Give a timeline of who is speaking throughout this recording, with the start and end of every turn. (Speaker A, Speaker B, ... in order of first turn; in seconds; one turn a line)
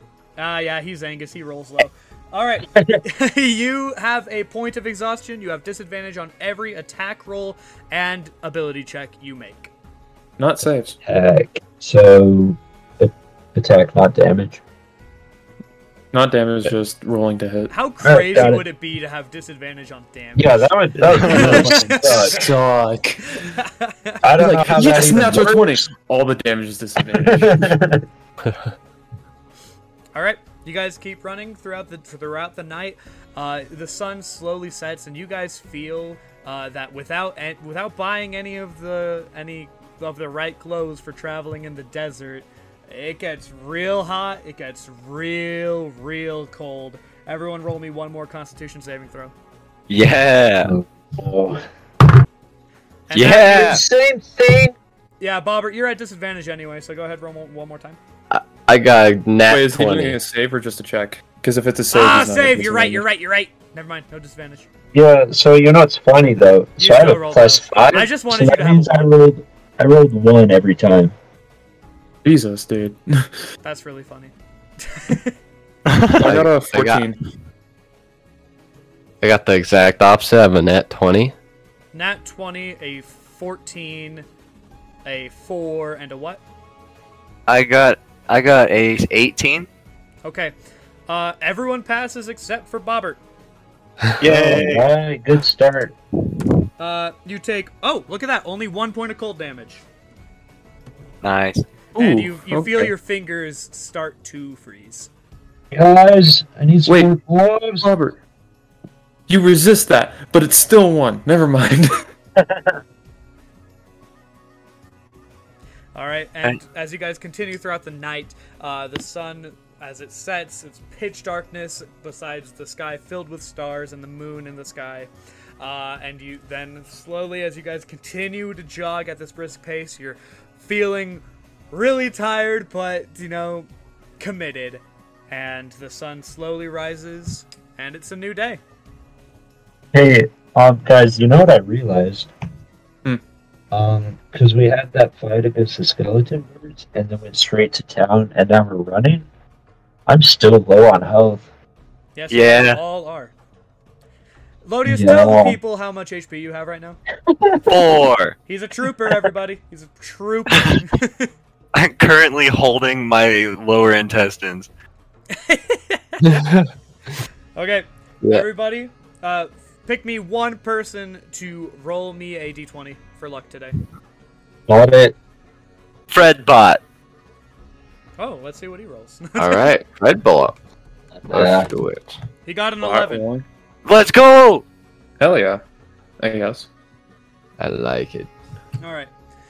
Speaker A: 0.4-9.7
Speaker B: 2.7-3.0
Speaker C: 10.4-10.9
Speaker B: 11.0-14.6
Speaker C: 16.1-17.7
Speaker A: 17.7-22.4
Speaker B: 18.0-18.6
Speaker B: 20.4-22.4
Speaker D: 21.1-21.6
Speaker C: 21.3-23.5
Speaker A: 23.3-24.2
Speaker B: 24.2-25.9
Speaker C: 24.4-27.7
Speaker B: 27.1-28.0
Speaker A: 30.1-49.3
Speaker D: 49.9-50.7
Speaker B: 50.6-51.6
Speaker A: 53.1-53.7
Speaker D: 53.1-53.8
Speaker B: 53.3-54.7
Speaker A: 55.2-58.0
Speaker E: 58.3-60.1
Speaker C: 59.5-63.0
Speaker A: 61.9-64.7
Speaker B: 64.9-71.1
Speaker A: 66.8-69.1
Speaker C: 72.2-73.4
Speaker A: 73.6-75.3
Speaker D: 75.8-76.3
Speaker E: 76.2-77.0
Speaker C: 76.2-77.2
Speaker E: 79.2-81.3
Speaker A: 81.9-84.2
Speaker A: 85.0-86.4
Speaker D: 87.5-89.7
Speaker A: 90.2-90.5
Speaker A: 91.1-93.2
Speaker D: 94.2-94.9
Speaker B: 94.2-95.9
Speaker A: 96.8-99.8
Speaker D: 101.2-101.7
Speaker C: 102.0-102.9
Speaker A: 102.0-105.1
Speaker B: 105.7-107.9
Speaker C: 106.8-107.1
Speaker C: 107.8-108.2
Speaker C: 109.3-112.0
Speaker B: 112.4-112.7
Speaker A: 115.9-133.7
Speaker A: 134.2-138.6
Speaker B: 139.9-142.3
Speaker B: 143.7-149.3
Speaker B: 150.1-151.4
Speaker A: 152.2-153.3
Speaker D: 152.3-152.8
Speaker A: 154.6-157.0
Speaker B: 154.8-155.6
Speaker B: 157.3-157.7
Speaker D: 157.6-158.3
Speaker A: 158.5-161.3
Speaker D: 161.7-164.7
Speaker A: 165.3-166.4
Speaker E: 166.2-166.7
Speaker A: 167.5-173.7
Speaker E: 168.2-168.5
Speaker B: 174.7-175.2
Speaker D: 176.1-176.8
Speaker A: 178.2-179.8
Speaker E: 179.3-180.6
Speaker E: 181.3-182.1
Speaker B: 181.3-181.7
Speaker A: 182.4-183.2
Speaker C: 182.8-183.4
Speaker D: 183.8-184.6
Speaker C: 185.2-185.6
Speaker C: 186.2-186.7
Speaker E: 187.6-188.3
Speaker A: 188.8-189.1